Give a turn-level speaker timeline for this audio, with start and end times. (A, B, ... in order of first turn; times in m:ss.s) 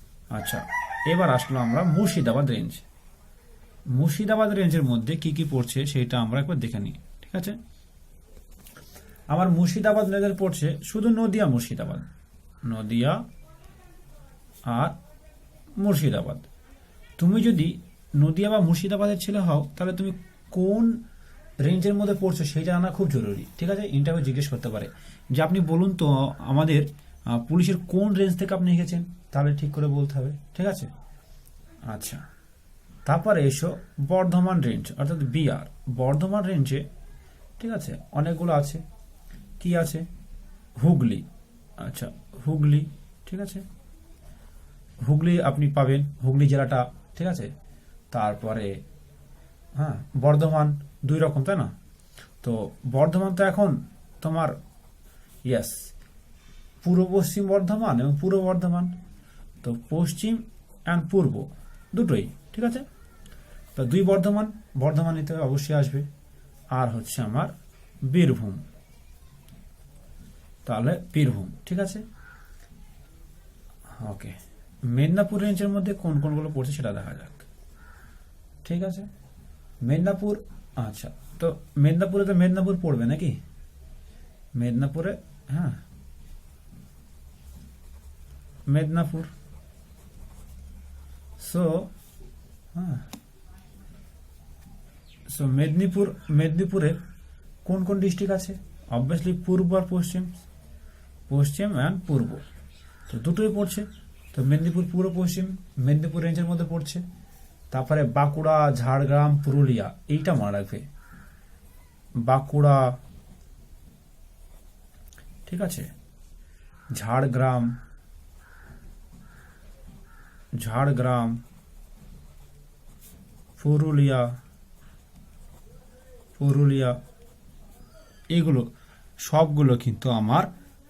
0:00.3-0:02.8 A
0:03.9-0:07.6 A
0:09.3-0:12.0 A
0:12.6-0:13.2 A
0:14.7-0:15.0 A
0:15.8-0:16.4 A
0:17.2-0:21.0 A
0:21.6-0:30.9 A
0:31.9-0:32.2 A
0:33.0-0:36.8 A
0:37.6-0:38.8 A
0:39.6-0:40.0 A
0:40.8-0:41.2 A
0:41.8-0:43.6 A
0:45.0-0:47.5 A
0:48.1-0:48.8 A
0:49.8-0:51.7 A
0:52.4-0:54.6 A
0:55.4-0:55.9 A
0:56.8-0:59.0 A
0:59.6-1:02.8 A
1:03.7-1:06.1 A
1:06.7-1:07.5 A
1:08.0-1:08.6 A
1:10.6-1:12.0 A
1:14.0-1:17.5 A
1:18.6-1:19.1 A
1:19.8-1:23.4 A
1:24.5-1:25.8 A
1:28.6-1:29.3 A
1:31.4-1:31.9 A
1:32.7-1:33.0 A
1:35.3-1:37.0 A
1:37.6-1:40.4 A
1:41.3-1:42.4 A
1:43.1-1:47.0 A
1:47.7-1:50.8 A
1:52.2-1:53.0 A
1:55.4-1:55.9 A
1:56.9-1:57.7 A
2:00.6-2:01.4 A
2:03.6-2:04.3 A
2:06.4-2:07.0 A
2:08.3-2:08.7 A
2:09.2-2:10.5 A